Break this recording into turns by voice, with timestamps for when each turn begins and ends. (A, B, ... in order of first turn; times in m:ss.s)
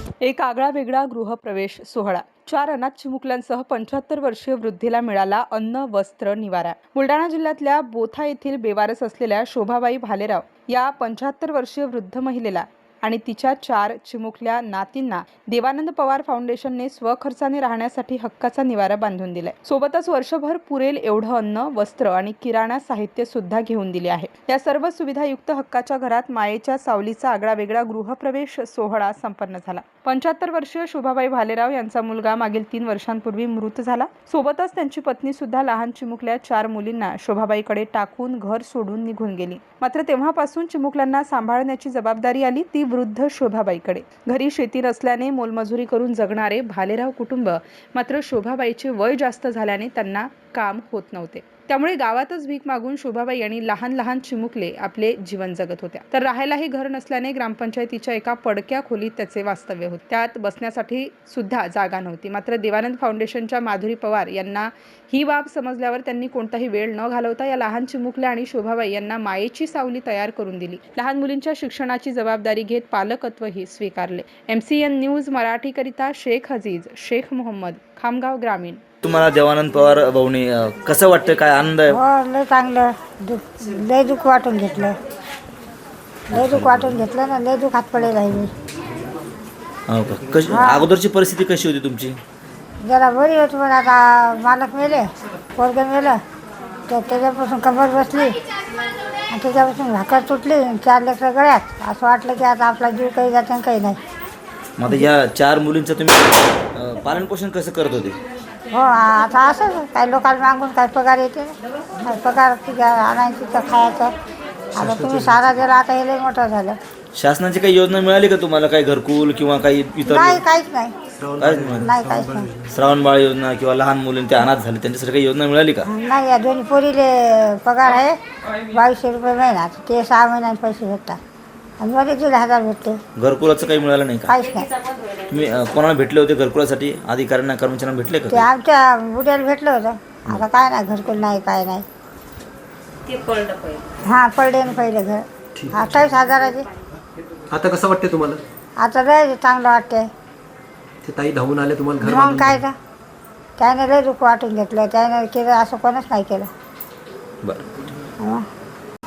0:00.2-1:18.8 A
1:19.0-1:22.0 B
1:21.9-1:25.0 C
1:26.3-1:28.5 C
1:26.3-1:26.9 B
1:29.9-1:32.2 B
1:30.5-1:30.9 C
1:32.8-1:36.2 C
1:36.9-1:38.4 C
1:39.3-1:44.0 C
1:44.8-1:48.2 B
1:48.7-1:54.1 C
1:54.7-1:56.8 C
1:54.8-1:55.5 D
1:57.1-2:00.4 B
2:00.0-2:00.9 C
2:01.2-2:02.7 D
2:01.4-2:01.9 B
2:01.8-2:02.5 C
2:02.7-2:05.9 B
2:05.8-2:08.2 C
2:08.7-2:11.2 C
2:11.8-2:13.0 C
2:13.2-2:14.4 B
2:14.2-2:14.7 C
2:15.3-2:18.5 B
2:18.3-2:21.8 C
2:24.0-2:26.7 C
2:27.5-2:28.4 D
2:28.8-2:30.1 C
2:31.0-2:32.6 D
2:32.0-2:32.7 C
2:33.6-2:36.5 C
2:38.2-2:38.4 C